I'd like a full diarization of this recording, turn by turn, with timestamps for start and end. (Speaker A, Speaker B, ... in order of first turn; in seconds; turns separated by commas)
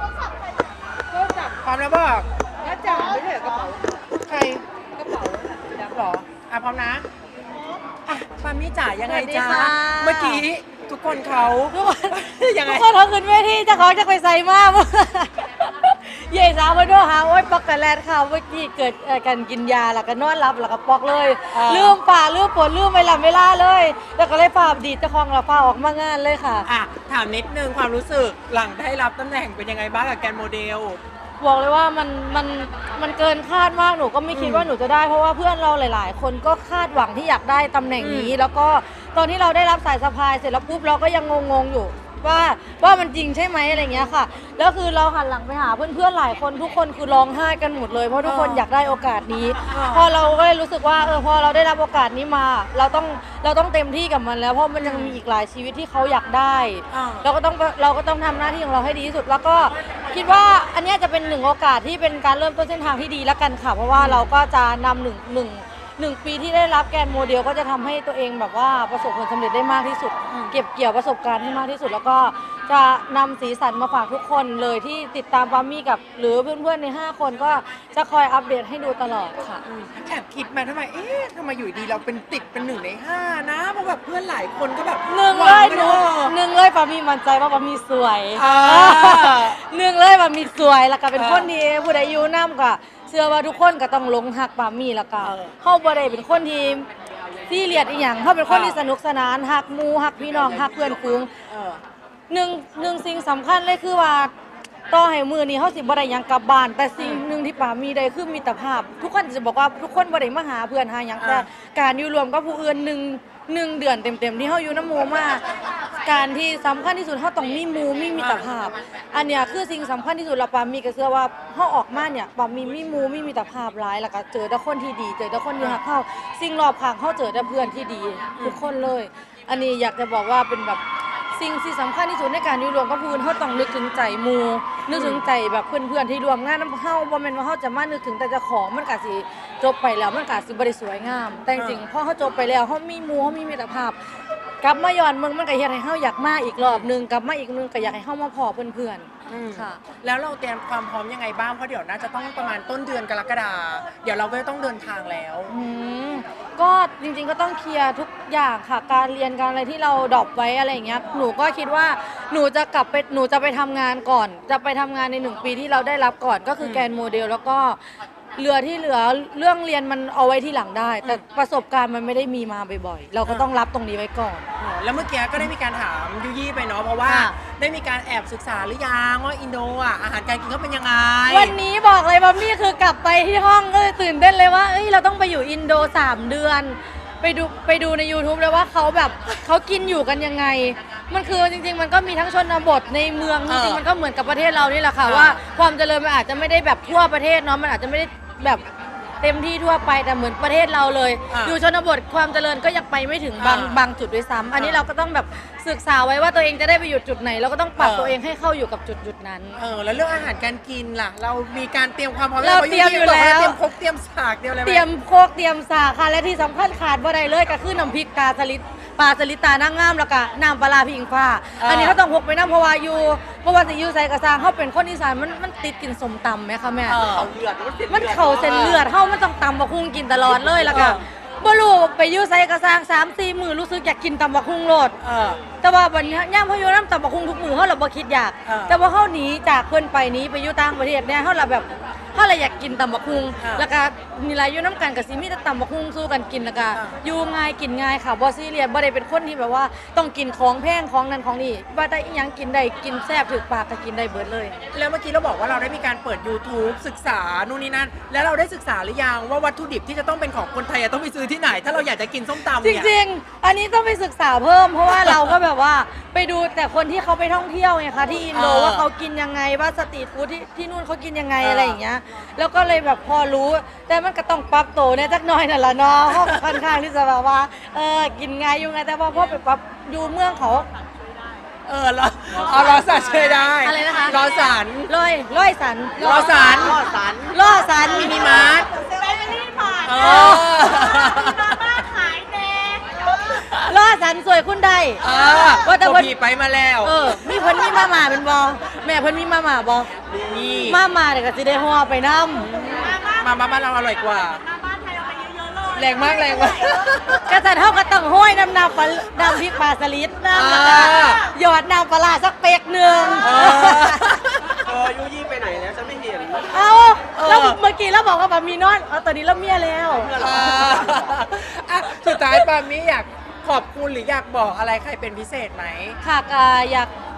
Speaker A: 1.4-2.3, Speaker B: 2.6-3.7, Speaker A: 4.2-7.0, Speaker A: 8.1-12.8, Speaker B: 9.0-10.4, Speaker B: 11.7-26.7, Speaker A: 21.5-22.0, Speaker A: 26.6-31.0, Speaker B: 31.4-79.6, Speaker A: 34.3-34.7, Speaker A: 38.0-38.3, Speaker A: 48.2-48.6, Speaker A: 49.7-50.1, Speaker A: 54.8-55.2, Speaker A: 56.9-57.2, Speaker A: 63.9-64.3, Speaker A: 70.3-70.6, Speaker A: 79.6-86.3, Speaker B: 85.1-96.9, Speaker A: 88.3-89.6, Speaker A: 91.2-91.5, Speaker A: 95.2-95.5, Speaker B: 97.5-101.3, Speaker A: 98.5-98.8, Speaker C: 100.2-101.2, Speaker A: 101.5-101.8, Speaker B: 102.3-104.3, Speaker B: 104.9-115.4, Speaker A: 107.0-107.2, Speaker A: 111.2-111.5, Speaker B: 116.0-130.8, Speaker A: 118.2-118.5, Speaker A: 128.4-128.6, Speaker B: 131.3-144.0, Speaker A: 134.9-135.2, Speaker A: 141.6-141.8, Speaker B: 144.6-149.8, Speaker A: 146.6-146.9, Speaker A: 149.3-155.5, Speaker B: 155.5-167.8, Speaker B: 168.3-174.5, Speaker A: 174.6-181.5, Speaker B: 177.0-177.3, Speaker B: 181.3-198.6, Speaker A: 193.5-193.8, Speaker A: 195.0-195.4, Speaker B: 199.2-209.6, Speaker A: 201.3-201.6, Speaker A: 203.4-203.8, Speaker A: 204.5-204.8, Speaker A: 207.8-208.2, Speaker A: 209.6-214.8, Speaker B: 212.4-213.6, Speaker B: 214.6-227.0, Speaker A: 221.6-222.0, Speaker A: 226.9-227.3, Speaker C: 227.0-228.6, Speaker B: 227.9-234.9, Speaker A: 228.4-228.9, Speaker A: 230.7-231.0, Speaker A: 235.0-235.4, Speaker B: 235.6-254.5, Speaker A: 238.4-238.8, Speaker A: 243.4-243.7, Speaker A: 254.7-262.9, Speaker B: 262.6-280.7, Speaker A: 268.3-268.9, Speaker A: 271.4-271.8, Speaker A: 281.6-284.9, Speaker C: 282.6-282.9, Speaker B: 283.5-284.2, Speaker B: 284.9-286.7, Speaker A: 286.0-286.8, Speaker C: 286.1-287.4, Speaker B: 287.3-288.3, Speaker A: 287.9-288.7, Speaker D: 289.1-289.8, Speaker A: 289.8-291.6, Speaker B: 289.9-291.1, Speaker D: 291.3-292.8, Speaker B: 293.4-296.1, Speaker A: 295.0-296.9, Speaker B: 296.8-299.9, Speaker C: 300.1-300.7, Speaker A: 300.3-300.8, Speaker B: 300.6-302.5, Speaker A: 302.4-304.4, Speaker D: 304.8-306.2, Speaker A: 305.7-307.2, Speaker B: 307.2-314.1, Speaker A: 310.3-311.2, Speaker A: 313.2-314.6, Speaker C: 314.6-316.5, Speaker B: 316.5-320.2, Speaker A: 317.1-317.6, Speaker C: 319.9-321.1, Speaker A: 320.2-326.0, Speaker B: 326.0-326.9